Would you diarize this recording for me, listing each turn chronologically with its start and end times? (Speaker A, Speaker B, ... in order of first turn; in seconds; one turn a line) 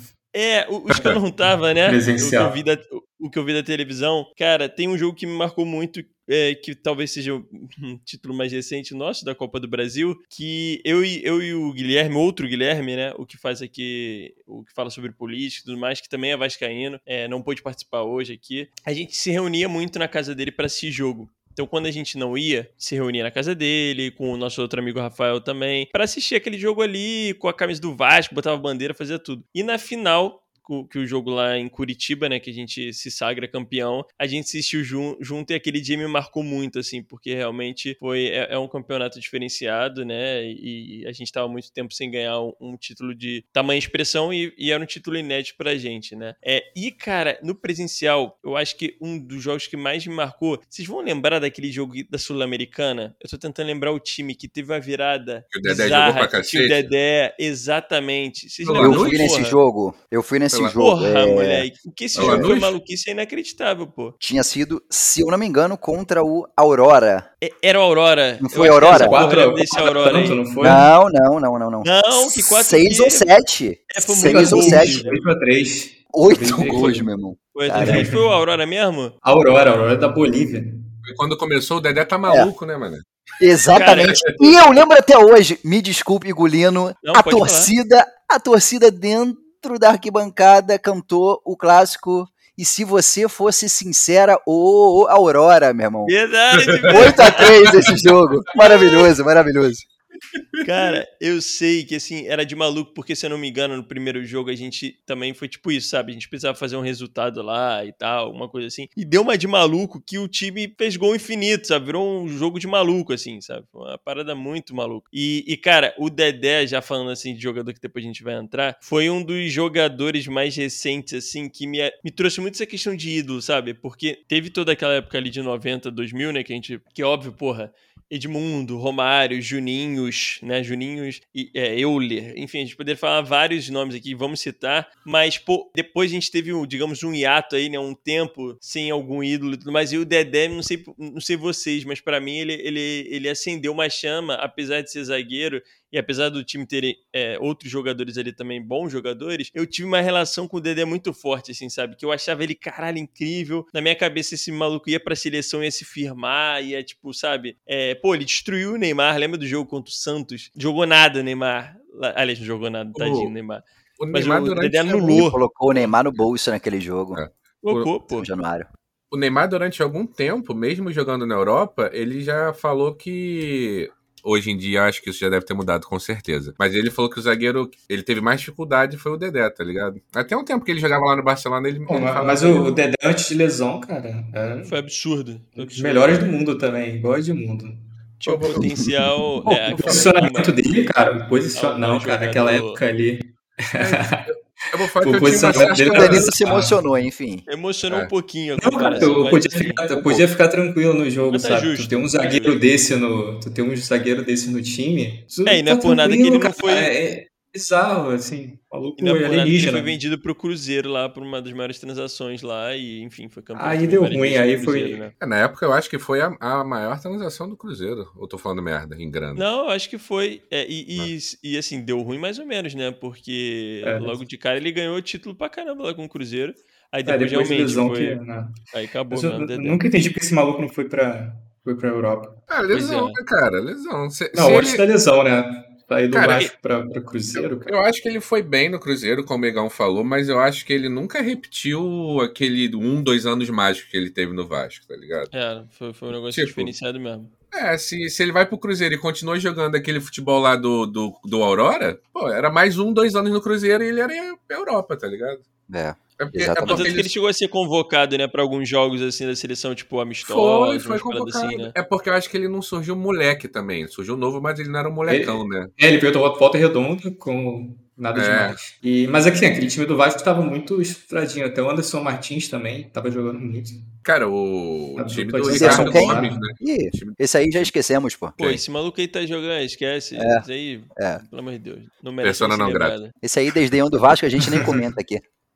Speaker A: 0.3-59.6
Speaker B: 1.8-2.5
Speaker C: 55.5-56.9
Speaker C: 58.6-59.3
Speaker D: 58.8-62.5
Speaker C: 60.5-60.8
Speaker A: 60.8-64.2
Speaker C: 62.1-62.7
Speaker D: 64.2-67.2
Speaker A: 67.4-70.4
Speaker D: 68.4-69.2
Speaker B: 68.5-70.9
Speaker D: 70.6-75.1
Speaker A: 71.8-73.3
Speaker A: 73.9-75.2
Speaker B: 74.2-77.1
Speaker D: 76.1-78.1
Speaker A: 77.5-79.1
Speaker B: 77.8-78.2
Speaker B: 79.2-80.8
Speaker C: 81.0-83.0
Speaker D: 83.4-96.1
Speaker A: 83.7-84.3
Speaker A: 87.0-87.7
Speaker A: 96.0-98.0
Speaker D: 96.8-99.8
Speaker C: 96.9-97.9
Speaker A: 100.6-165.4
Speaker C: 162.9-163.3
Speaker C: 164.0-165.9
Speaker D: 165.1-167.2
Speaker C: 167.2-167.9
Speaker A: 167.6-168.3
Speaker D: 168.1-168.7
Speaker C: 169.1-182.7
Speaker B: 181.9-184.7
Speaker A: 184.7-186.3
Speaker B: 185.6-187.9
Speaker A: 188.2-190.6
Speaker C: 188.3-188.9
Speaker B: 189.4-194.2
Speaker C: 189.8-190.1
Speaker A: 191.5-192.8
Speaker C: 193.8-196.3
Speaker B: 195.0-196.8
Speaker D: 195.5-197.4
Speaker A: 197.5-200.0
Speaker B: 198.6-209.9
Speaker A: 201.3-202.6
Speaker A: 205.4-206.9
Speaker A: 209.0-215.1
Speaker B: 213.5-215.0
Speaker C: 215.2-219.4
Speaker A: 219.3-228.2
Speaker B: 223.8-224.2
Speaker B: 227.1-228.6
Speaker A: 228.7-229.8
Speaker B: 229.1-232.4
Speaker C: 232.5-234.8
Speaker A: 232.7-233.2
Speaker B: 234.3-237.7
Speaker C: 236.1-236.5
Speaker C: 237.3-245.3
Speaker A: 245.3-247.3
Speaker C: 246.1-246.7
Speaker C: 247.5-255.4
Speaker D: 255.7-257.0
Speaker C: 256.2-257.1
Speaker A: 256.6-261.7
Speaker C: 260.2-265.7
Speaker B: 265.1-273.8
Speaker C: 268.1-268.6
Speaker C: 274.0-277.6
Speaker B: 275.0-276.5
Speaker D: 275.5-278.4
Speaker A: 278.4-283.1
Speaker D: 280.1-280.4
Speaker D: 280.9-281.2
Speaker C: 282.2-282.9
Speaker D: 283.2-285.2
Speaker B: 284.4-284.8